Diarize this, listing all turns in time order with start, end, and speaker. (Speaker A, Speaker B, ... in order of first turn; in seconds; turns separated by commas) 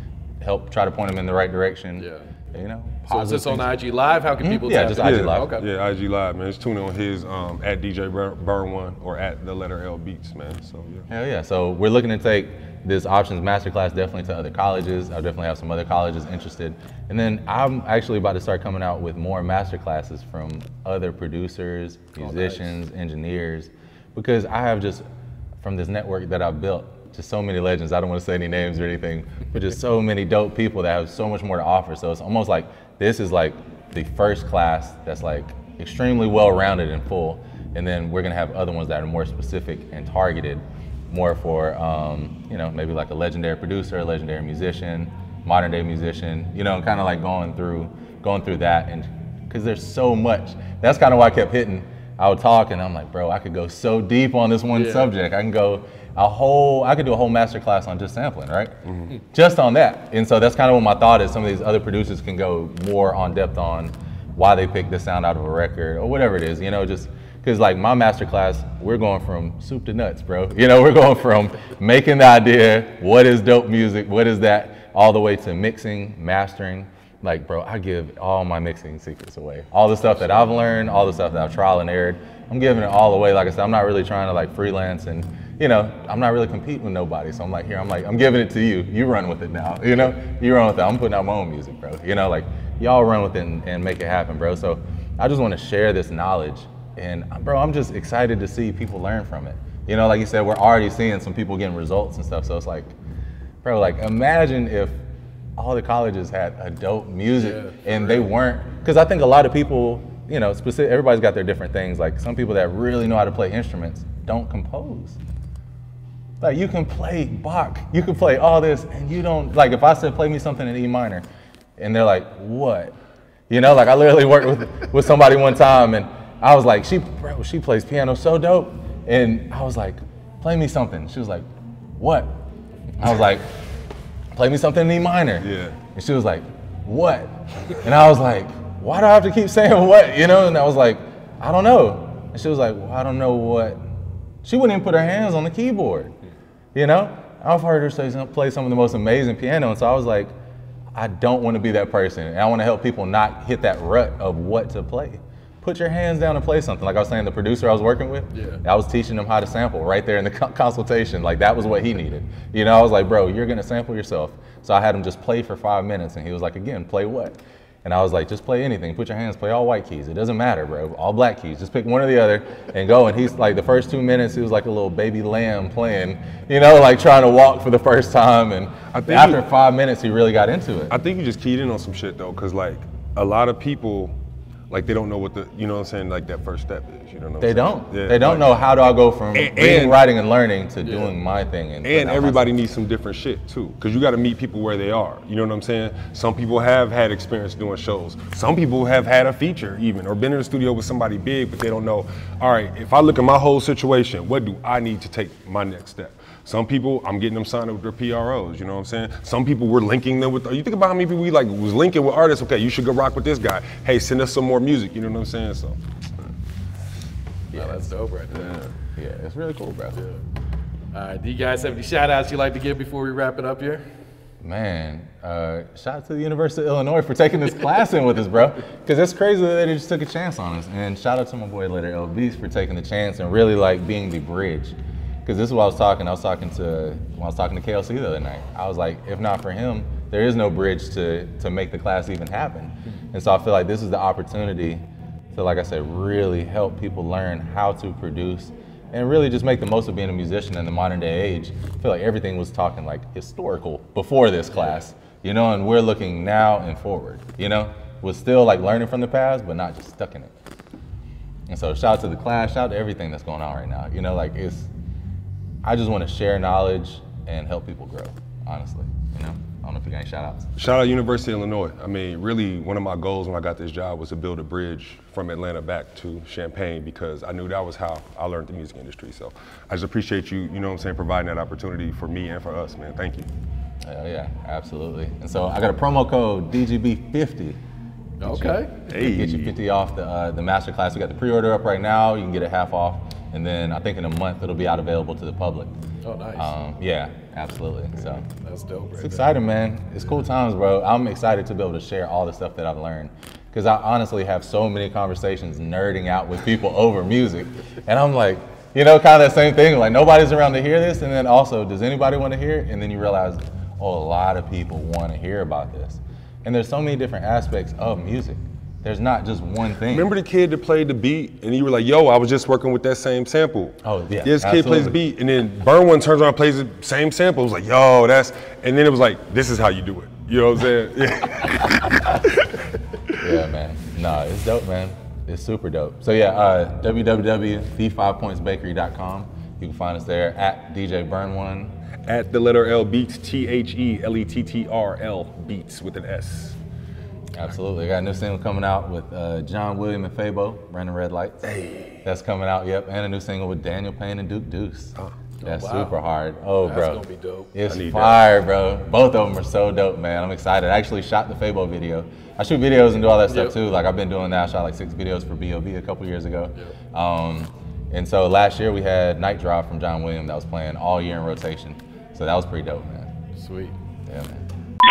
Speaker A: 0.4-3.8, Speaker B: 2.0-2.3, Speaker B: 3.1-5.7, Speaker A: 4.4-5.5, Speaker C: 5.0-11.1, Speaker A: 11.1-25.0, Speaker B: 22.2-22.8, Speaker A: 25.6-58.8, Speaker B: 54.7-55.1, Speaker C: 58.9-59.2, Speaker A: 59.3-102.9, Speaker B: 80.1-80.5, Speaker A: 103.6-105.0, Speaker A: 105.6-115.2, Speaker B: 107.4-108.3, Speaker A: 116.4-121.3, Speaker A: 121.8-123.0, Speaker A: 123.5-131.5, Speaker A: 132.0-132.4, Speaker A: 133.0-133.5, Speaker A: 134.3-143.8, Speaker C: 135.4-135.8, Speaker A: 144.4-146.1, Speaker A: 146.7-150.3, Speaker A: 150.9-180.9, Speaker B: 158.3-158.6, Speaker C: 178.9-179.4, Speaker C: 180.9-184.2, Speaker C: 184.7-188.8, Speaker A: 187.4-192.7, Speaker C: 189.3-190.1, Speaker B: 190.8-191.2, Speaker C: 191.8-215.8, Speaker A: 217.5-217.9, Speaker B: 217.5-218.6, Speaker C: 218.3-218.7, Speaker A: 218.9-220.0, Speaker B: 219.9-220.2, Speaker B: 220.9-223.8, Speaker A: 224.4-260.3, Speaker B: 254.5-254.9, Speaker A: 261.5-264.7, Speaker A: 265.6-270.5, Speaker C: 270.6-283.3, Speaker A: 283.8-287.6, Speaker B: 288.2-288.8, Speaker A: 288.2-295.7, Speaker C: 288.9-289.6, Speaker B: 296.0-296.5, Speaker A: 296.4-298.3, Speaker B: 298.2-299.3, Speaker A: 299.0-320.1, Speaker C: 319.9-332.5, Speaker A: 323.8-325.0, Speaker A: 333.2-341.7, Speaker C: 342.1-346.6, Speaker A: 347.3-351.4, Speaker C: 351.4-352.0, Speaker A: 352.0-373.1, Speaker B: 355.4-356.0, Speaker B: 356.6-357.6, Speaker C: 357.6-358.3, Speaker B: 363.3-363.6, Speaker B: 373.4-373.8, Speaker A: 374.1-374.5